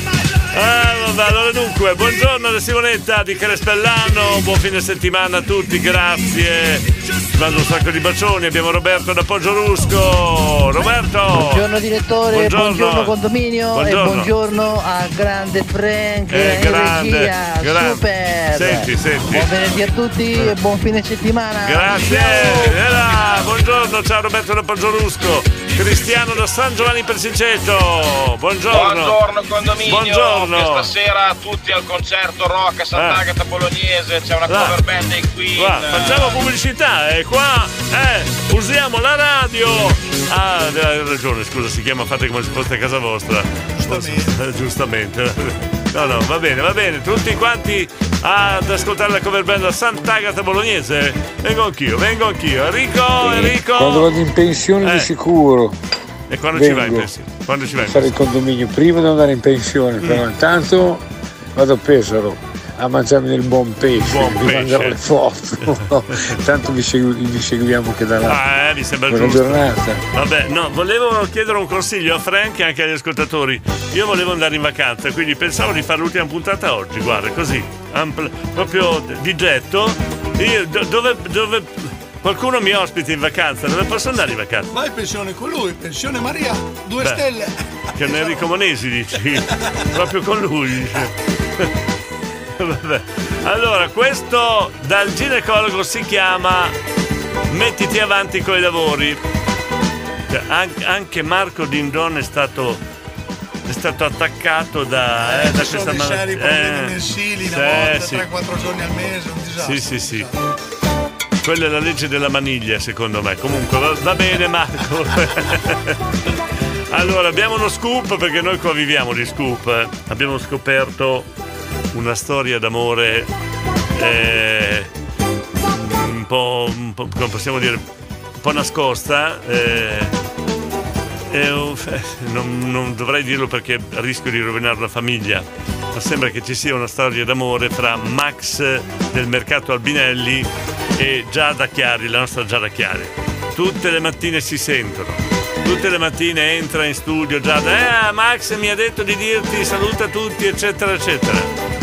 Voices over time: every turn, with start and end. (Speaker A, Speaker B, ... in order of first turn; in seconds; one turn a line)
Speaker A: 0.5-11.7
Speaker B: 11.4-22.4
Speaker A: 12.3-13.1
Speaker A: 13.7-14.3
Speaker A: 16.3-19.5
Speaker A: 21.6-29.2
Speaker C: 28.7-36.4
Speaker A: 29.8-30.9
Speaker A: 32.9-33.2
Speaker A: 34.5-34.8
Speaker A: 35.6-54.1
Speaker D: 43.7-44.4
Speaker E: 53.2-55.8
Speaker A: 54.8-55.1
Speaker A: 56.3-58.1
Speaker E: 56.5-57.1
Speaker E: 57.8-61.0
Speaker E: 61.6-68.4
Speaker A: 64.0-65.0
Speaker A: 68.2-84.7
Speaker E: 69.1-70.0
Speaker D: 84.7-88.4
Speaker A: 88.0-91.7
Speaker A: 92.6-96.8
Speaker A: 97.5-99.2
Speaker A: 100.3-102.8
Speaker A: 103.7-108.3
Speaker D: 105.2-110.4
Speaker A: 109.6-110.3
Speaker A: 111.4-116.0
Speaker A: 116.9-121.3
Speaker A: 121.9-123.3
Speaker A: 124.0-124.9
Speaker A: 125.7-127.8
Speaker A: 128.4-130.1
Speaker A: 131.3-151.5